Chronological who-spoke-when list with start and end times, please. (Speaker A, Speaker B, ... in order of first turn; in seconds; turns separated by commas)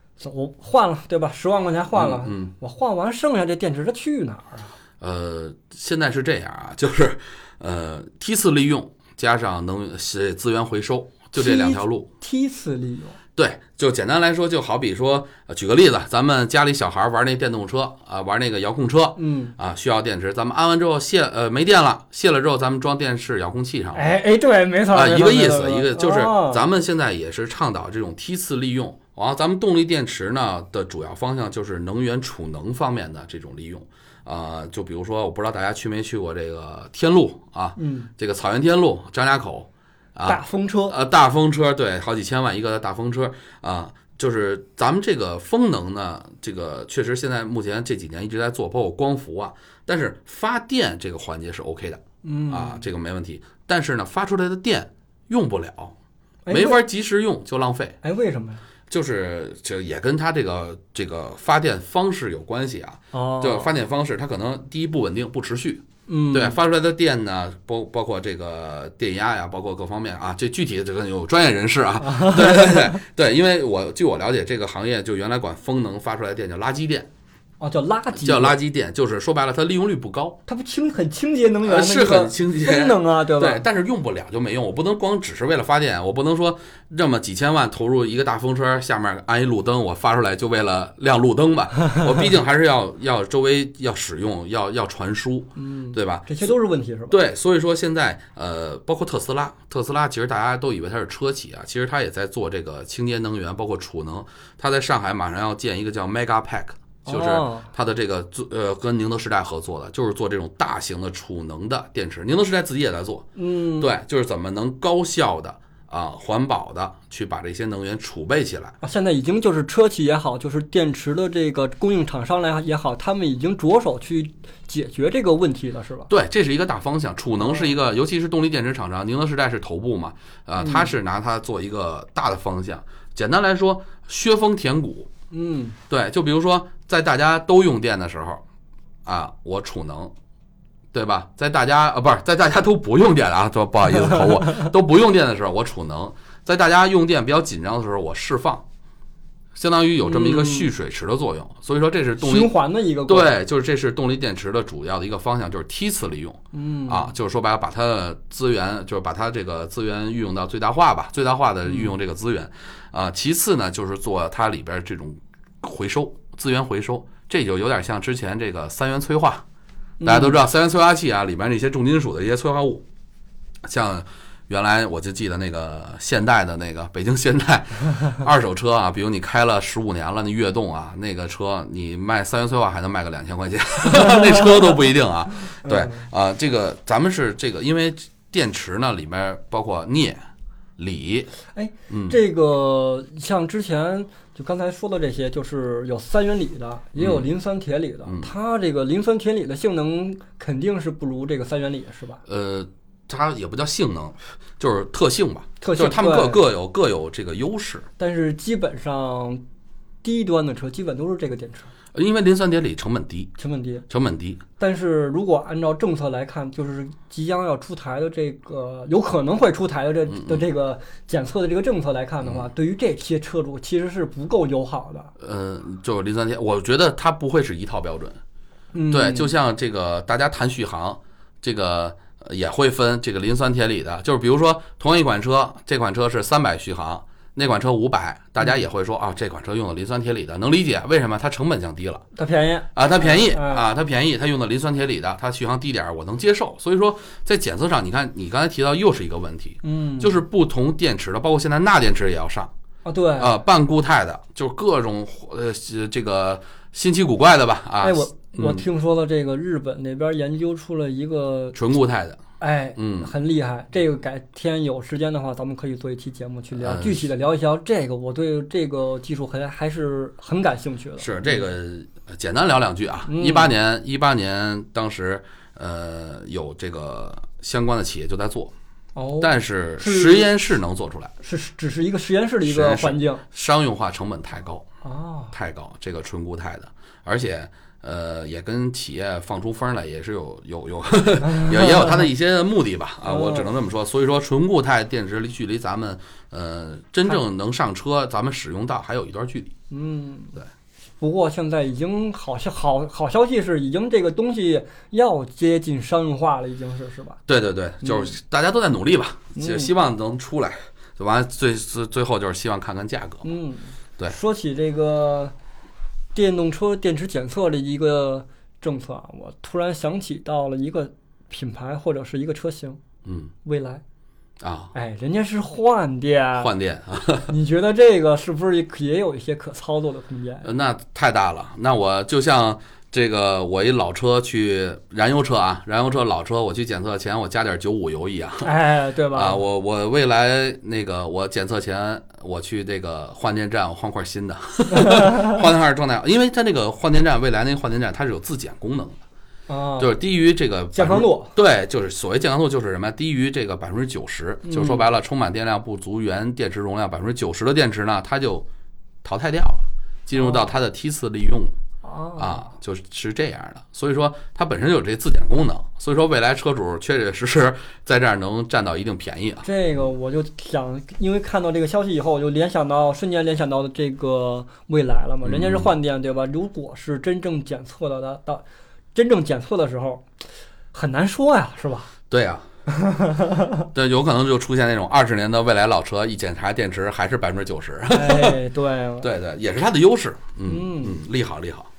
Speaker A: 0.2-4.7, Speaker B: 1.9-2.5, Speaker B: 5.0-12.1, Speaker A: 11.3-13.2, Speaker B: 13.3-24.1, Speaker A: 19.1-19.5, Speaker A: 23.9-26.6, Speaker B: 24.9-56.0, Speaker A: 37.8-38.1, Speaker A: 40.3-41.0, Speaker A: 52.2-52.8, Speaker A: 56.5-56.8, Speaker B: 56.5-58.0, Speaker A: 58.0-58.6, Speaker B: 58.9-77.1, Speaker A: 63.1-63.7, Speaker A: 66.1-66.6, Speaker A: 72.0-73.0, Speaker A: 77.6-78.6, Speaker B: 78.1-80.4, Speaker A: 80.5-83.6, Speaker B: 81.6-96.5, Speaker A: 95.5-97.2, Speaker B: 97.1-113.3, Speaker A: 107.0-107.7, Speaker A: 113.3-113.9, Speaker B: 113.8-118.8, Speaker A: 118.8-126.1, Speaker B: 126.1-135.1, Speaker A: 127.4-127.7, Speaker A: 130.6-130.9, Speaker A: 135.3-135.8, Speaker B: 135.9-138.4, Speaker B: 139.1-140.1, Speaker B: 140.9-148.6, Speaker B: 149.5-152.5, Speaker A: 150.0-150.7, Speaker A: 152.2-153.3, Speaker B: 153.1-169.4, Speaker A: 156.5-157.1, Speaker A: 161.6-161.9, Speaker A: 170.0-170.4, Speaker B: 170.0-172.8, Speaker B: 173.6-190.2, Speaker A: 185.6-186.1, Speaker B: 190.8-191.3, Speaker A: 191.5-202.2, Speaker B: 191.9-192.2, Speaker B: 196.9-197.3, Speaker B: 198.0-198.3, Speaker B: 202.2-207.9, Speaker A: 205.6-206.4, Speaker A: 208.0-209.4, Speaker A: 210.0-211.7, Speaker B: 211.9-213.3, Speaker A: 213.4-213.8, Speaker B: 213.9-214.4, Speaker A: 214.6-225.1, Speaker B: 220.1-220.4, Speaker B: 222.2-222.5, Speaker B: 225.2-228.2, Speaker A: 228.7-229.3, Speaker B: 228.9-242.0, Speaker A: 242.1-243.7, Speaker B: 242.7-252.5, Speaker A: 249.6-250.2, Speaker A: 252.8-253.4, Speaker B: 253.2-258.6, Speaker A: 257.8-261.6, Speaker B: 261.5-262.2, Speaker A: 262.4-271.5, Speaker B: 262.8-263.1, Speaker B: 266.5-267.0, Speaker B: 271.0-278.5, Speaker A: 273.1-273.5, Speaker A: 278.9-280.3, Speaker B: 279.2-281.1, Speaker A: 281.2-283.2, Speaker B: 282.4-284.6, Speaker A: 284.8-285.3, Speaker B: 285.3-299.5, Speaker A: 293.0-293.5, Speaker A: 299.7-300.4, Speaker A: 301.0-307.2, Speaker B: 307.3-313.3, Speaker A: 307.8-308.1, Speaker A: 309.4-309.7, Speaker A: 313.2-315.3, Speaker A: 316.1-322.8, Speaker B: 323.0-323.3, Speaker A: 323.4-323.8, Speaker B: 324.4-324.7, Speaker A: 324.7-326.5, Speaker B: 326.4-327.3, Speaker A: 327.3-330.4, Speaker B: 330.4-338.5, Speaker A: 338.4-339.4, Speaker B: 339.1-349.0, Speaker A: 344.8-345.3, Speaker A: 349.5-349.9, Speaker B: 349.8-358.4, Speaker A: 350.7-351.3, Speaker A: 354.5-354.9, Speaker B: 359.0-361.5, Speaker A: 360.2-360.5, Speaker A: 361.8-362.5, Speaker B: 362.2-369.5, Speaker A: 369.4-378.4, Speaker B: 375.2-375.7, Speaker A: 378.9-380.0, Speaker A: 380.7-381.9, Speaker B: 382.1-382.4, Speaker A: 382.7-383.6, Speaker B: 383.7-388.4, Speaker A: 387.9-389.1, Speaker B: 389.0-391.7, Speaker A: 390.4-391.0